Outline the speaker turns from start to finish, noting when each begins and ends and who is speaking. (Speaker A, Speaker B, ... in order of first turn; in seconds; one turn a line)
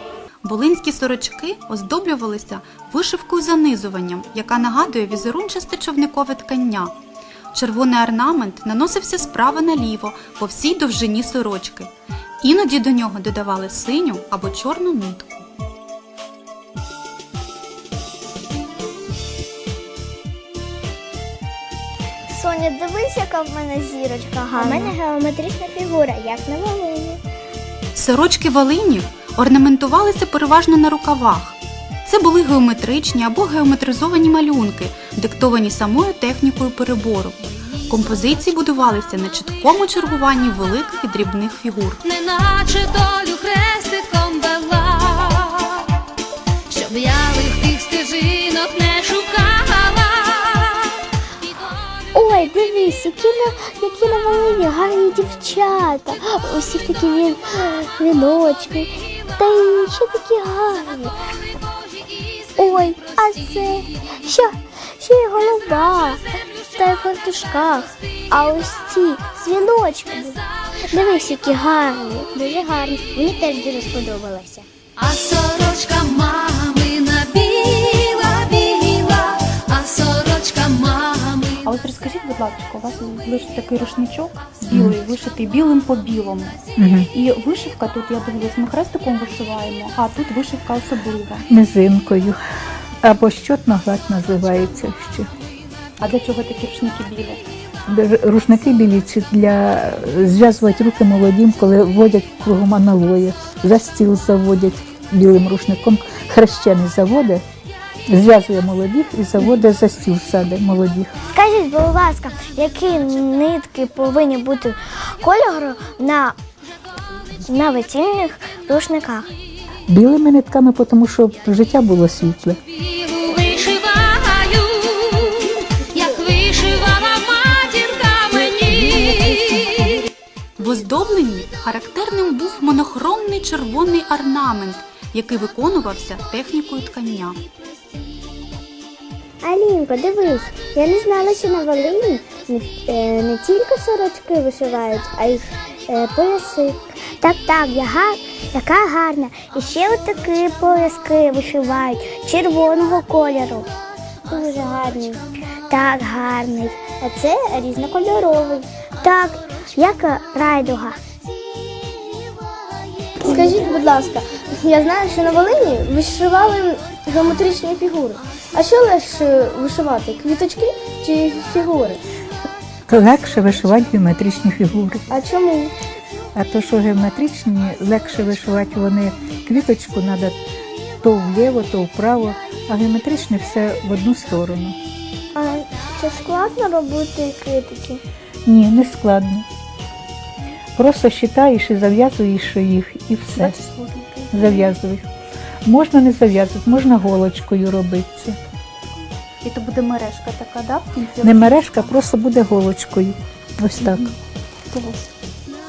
Speaker A: 0.4-6.9
Speaker A: 7.5-11.9
Speaker A: 12.4-15.4
Speaker B: 22.3-27.2
Speaker A: 24.6-24.9
Speaker A: 27.9-42.0
Speaker C: 42.0-45.9
Speaker C: 46.7-51.0
Speaker B: 52.1-61.1
Speaker B: 62.5-74.7
Speaker C: 75.0-81.7
Speaker D: 81.6-86.6
Speaker E: 86.8-87.1
Speaker D: 87.1-91.5
Speaker E: 91.5-92.4
Speaker E: 93.0-95.3
Speaker D: 96.0-97.4
Speaker E: 97.9-107.4
Speaker E: 108.1-111.1
Speaker B: 111.3-116.3
Speaker B: 117.5-119.3
Speaker E: 119.9-122.6
Speaker C: 122.8-130.1
Speaker A: 130.6-137.4
Speaker B: 139.4-153.7
Speaker B: 154.3-161.0
Speaker F: 163.3-172.0
Speaker E: 172.9-175.0
Speaker F: 175.1-175.7
Speaker E: 176.3-180.3
Speaker E: 181.0-184.8
Speaker B: 185.3-188.0
Speaker E: 188.4-189.4
Speaker E: 190.8-193.5
Speaker D: 193.3-194.7
Speaker E: 194.3-195.1
Speaker E: 195.6-198.4
Speaker D: 199.4-201.9
Speaker E: 201.2-204.1
Speaker D: 203.8-204.1
Speaker D: 204.7-205.1